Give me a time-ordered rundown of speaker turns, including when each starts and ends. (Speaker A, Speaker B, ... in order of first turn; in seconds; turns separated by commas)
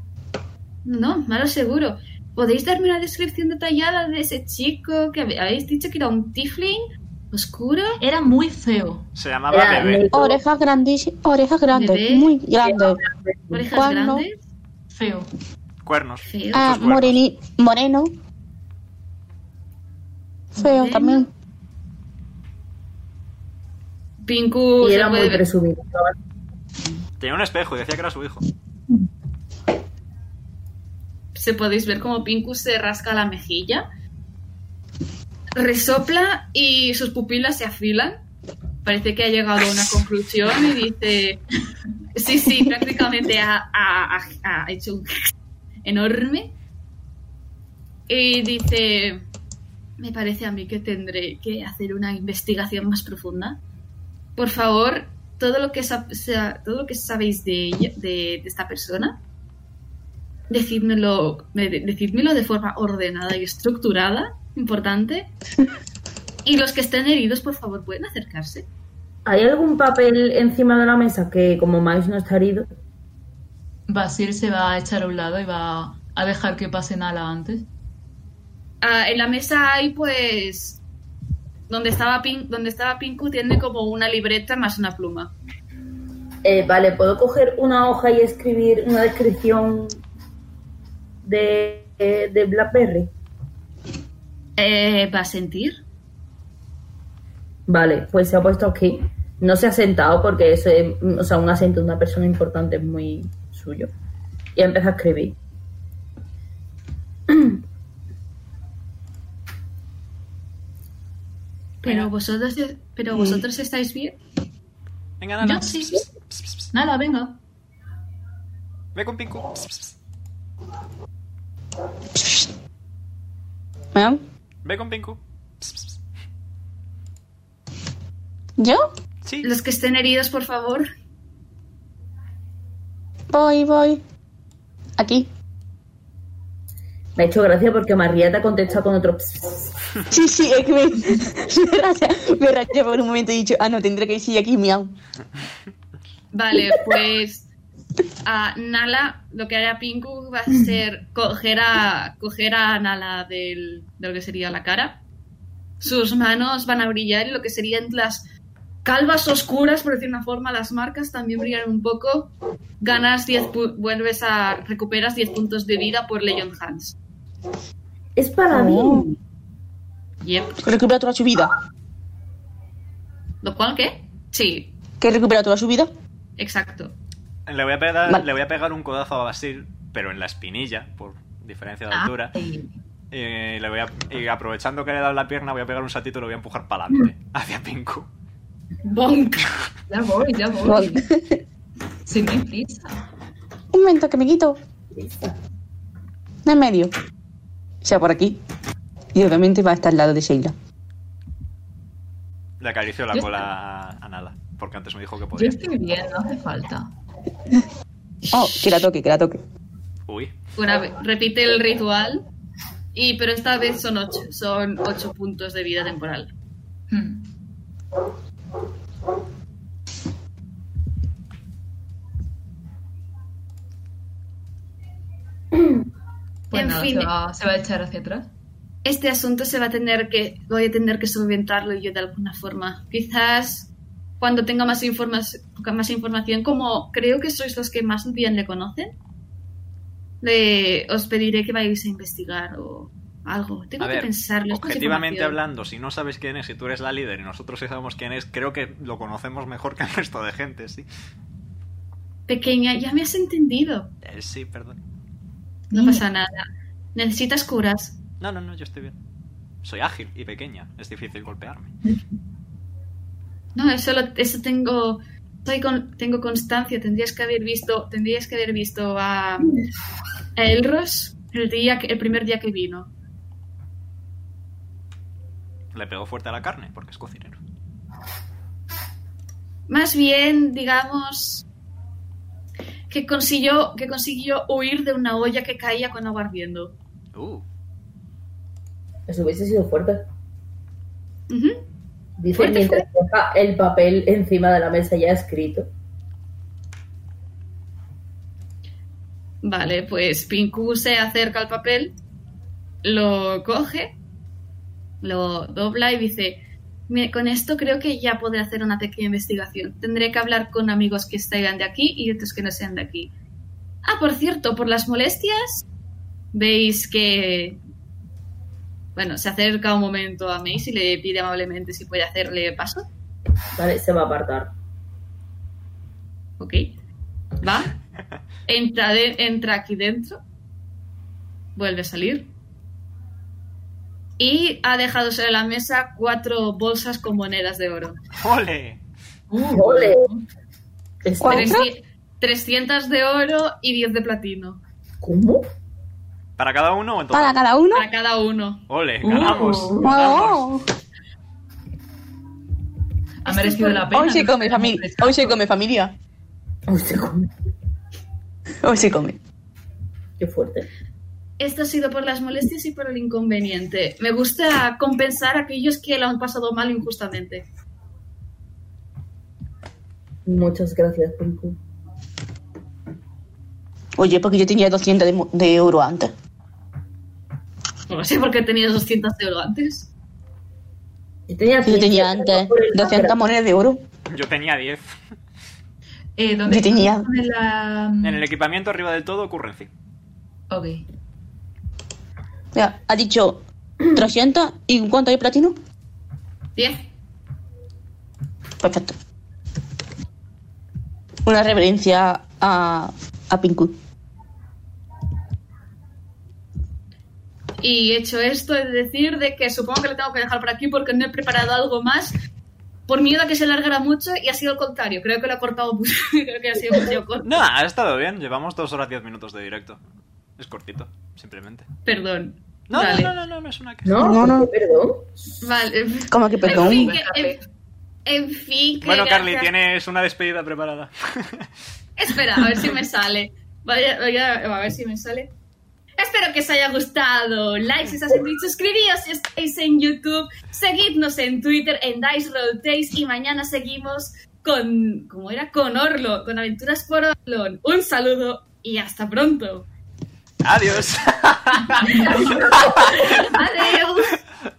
Speaker A: 0.8-8.0, Speaker B: 8.0-9.1, Speaker C: 9.2-10.1, Speaker D: 9.5-10.4, Speaker E: 10.1-13.0, Speaker A: 11.7-12.3, Speaker D: 12.6-13.7, Speaker A: 13.5-14.4, Speaker E: 13.7-14.2, Speaker B: 14.9-15.3, Speaker C: 15.8-17.2, Speaker A: 16.2-16.7, Speaker E: 16.5-18.1, Speaker E: 20.5-21.3, Speaker A: 20.6-21.3, Speaker A: 24.2-25.4, Speaker D: 24.8-26.1, Speaker C: 27.2-28.4, Speaker A: 31.4-33.9, Speaker A: 35.6-38.2, Speaker A: 38.8-41.4, Speaker A: 42.1-45.1, Speaker A: 45.9-46.5, Speaker A: 48.1-49.3, Speaker A: 50.0-53.6, Speaker A: 54.4-59.2, Speaker A: 60.5-65.3, Speaker A: 66.5-68.7, Speaker D: 69.3-72.7, Speaker B: 73.9-77.7, Speaker A: 78.8-80.8, Speaker A: 81.7-85.3, Speaker D: 86.4-90.0, Speaker D: 91.2-93.1, Speaker A: 94.6-95.8, Speaker D: 97.7-103.9, Speaker D: 104.6-105.4, Speaker D: 107.3-107.6, Speaker A: 111.8-114.2, Speaker E: 113.1-113.4, Speaker C: 115.2-116.7, Speaker B: 115.4-116.1, Speaker B: 116.7-117.4, Speaker C: 119.0-119.9, Speaker E: 123.9-124.2, Speaker C: 124.6-125.9, Speaker E: 128.6-128.9, Speaker C: 129.2-129.5, Speaker A: 129.4-130.9, Speaker E: 133.3-134.0, Speaker E: 135.0-135.3, Speaker D: 137.2-139.7, Speaker E: 140.1-144.9, Speaker A: 146.3-147.5, Speaker A: 148.2-155.0, Speaker A: 155.8-158.2, Speaker A: 158.8-166.9, Speaker D: 168.2-169.2, Speaker E: 168.5-169.1, Speaker A: 170.2-170.6, Speaker E: 170.6-171.6, Speaker A: 173.4-174.7, Speaker E: 175.0-175.9, Speaker A: 176.4-176.9, Speaker C: 177.5-182.3, Speaker B: 182.3-182.7, Speaker C: 183.1-188.1, Speaker A: 188.8-189.5, Speaker B: 189.9-191.1, Speaker E: 190.6-191.4, Speaker B: 192.1-193.0, Speaker E: 193.7-194.6, Speaker D: 195.0-195.3, Speaker E: 196.4-196.9, Speaker E: 197.8-198.4, Speaker E: 199.1-200.5, Speaker C: 202.6-205.6, Speaker B: 203.1-203.4, Speaker B: 205.3-206.9, Speaker E: 208.3-209.4, Speaker C: 210.1-210.4, Speaker A: 210.6-212.2, Speaker A: 212.9-216.3, Speaker B: 216.9-217.3, Speaker B: 226.5-228.3, Speaker A: 226.5-227.1, Speaker A: 228.8-238.9, Speaker A: 240.2-245.4, Speaker C: 243.8-250.9, Speaker A: 252.3-253.9, Speaker C: 254.0-254.8, Speaker B: 255.7-256.0, Speaker A: 255.7-258.0, Speaker C: 258.2-259.0, Speaker C: 259.6-261.7, Speaker A: 263.6-269.6, Speaker A: 270.4-272.9, Speaker C: 275.7-277.4, Speaker A: 279.7-281.4, Speaker A: 282.9-286.7, Speaker C: 287.1-287.4, Speaker D: 289.1-290.0, Speaker A: 291.3-291.6, Speaker D: 292.2-295.7, Speaker A: 292.3-292.9, Speaker A: 299.4-301.9, Speaker A: 302.8-304.0, Speaker A: 305.0-313.1, Speaker A: 313.8-315.6, Speaker A: 316.3-317.6, Speaker A: 319.0-322.9, Speaker D: 323.6-324.5, Speaker A: 326.4-326.7, Speaker A: 327.4-327.8, Speaker A: 328.5-330.2, Speaker A: 331.6-332.3, Speaker A: 334.2-338.0, Speaker C: 338.2-338.8, Speaker B: 339.3-340.2, Speaker D: 339.5-340.1, Speaker D: 341.0-341.6, Speaker E: 341.2-341.7, Speaker A: 341.2-344.6, Speaker D: 345.0-345.4, Speaker C: 346.4-347.4, Speaker E: 347.1-347.9, Speaker A: 347.7-348.7, Speaker C: 348.7-350.5, Speaker B: 349.0-349.9, Speaker E: 349.8-350.6, Speaker B: 353.2-355.4, Speaker A: 353.3-353.9, Speaker E: 353.9-355.9, Speaker D: 356.7-357.3, Speaker E: 358.6-359.2, Speaker D: 360.2-360.7, Speaker A: 361.4-367.4, Speaker D: 370.3-371.6, Speaker E: 374.0-376.1, Speaker A: 377.9-379.9, Speaker D: 381.3-383.2, Speaker E: 381.6-383.8, Speaker C: 384.1-384.9, Speaker B: 386.2-388.2, Speaker E: 386.5-387.1, Speaker C: 388.0-389.7, Speaker B: 390.5-390.8, Speaker E: 392.5-395.6, Speaker A: 396.6-396.8, Speaker E: 398.6-398.9, Speaker E: 401.2-403.8, Speaker A: 407.6-412.2, Speaker A: 412.9-417.4, Speaker C: 417.2-419.8, Speaker C: 420.4-421.7, Speaker A: 421.9-423.1, Speaker C: 422.7-424.0, Speaker D: 423.9-425.2, Speaker E: 424.0-424.5, Speaker A: 425.4-427.4, Speaker E: 426.1-426.9, Speaker B: 426.4-427.4, Speaker A: 428.1-429.5, Speaker C: 428.8-431.5, Speaker A: 432.0-435.3, Speaker A: 436.0-449.7, Speaker C: 450.4-453.4, Speaker A: 452.2-454.2